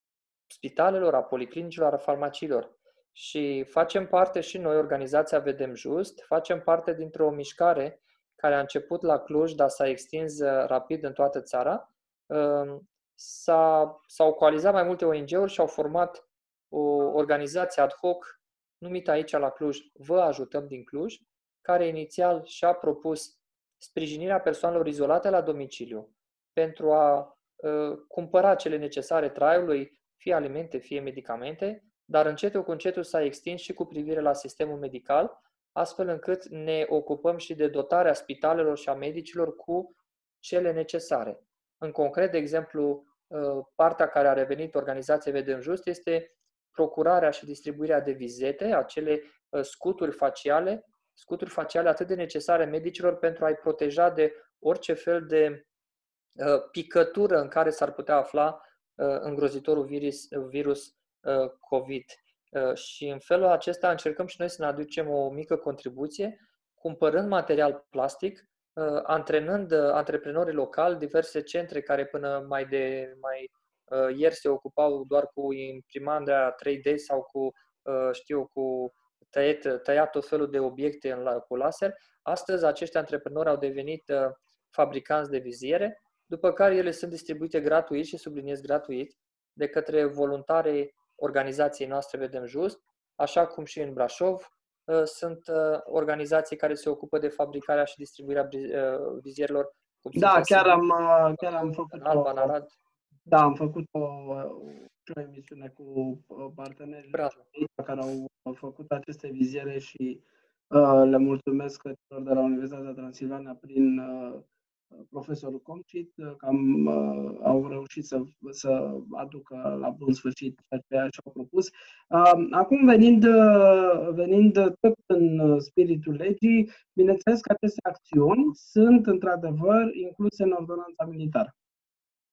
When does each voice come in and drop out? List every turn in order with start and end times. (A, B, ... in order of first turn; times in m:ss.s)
0:00.5-0:55.6 A
0:56.4-1:40.8 A
1:40.1-1:42.5 B
1:41.4-1:42.7 A
1:43.3-1:54.5 B
1:47.1-1:47.4 A
1:55.0-2:11.5 B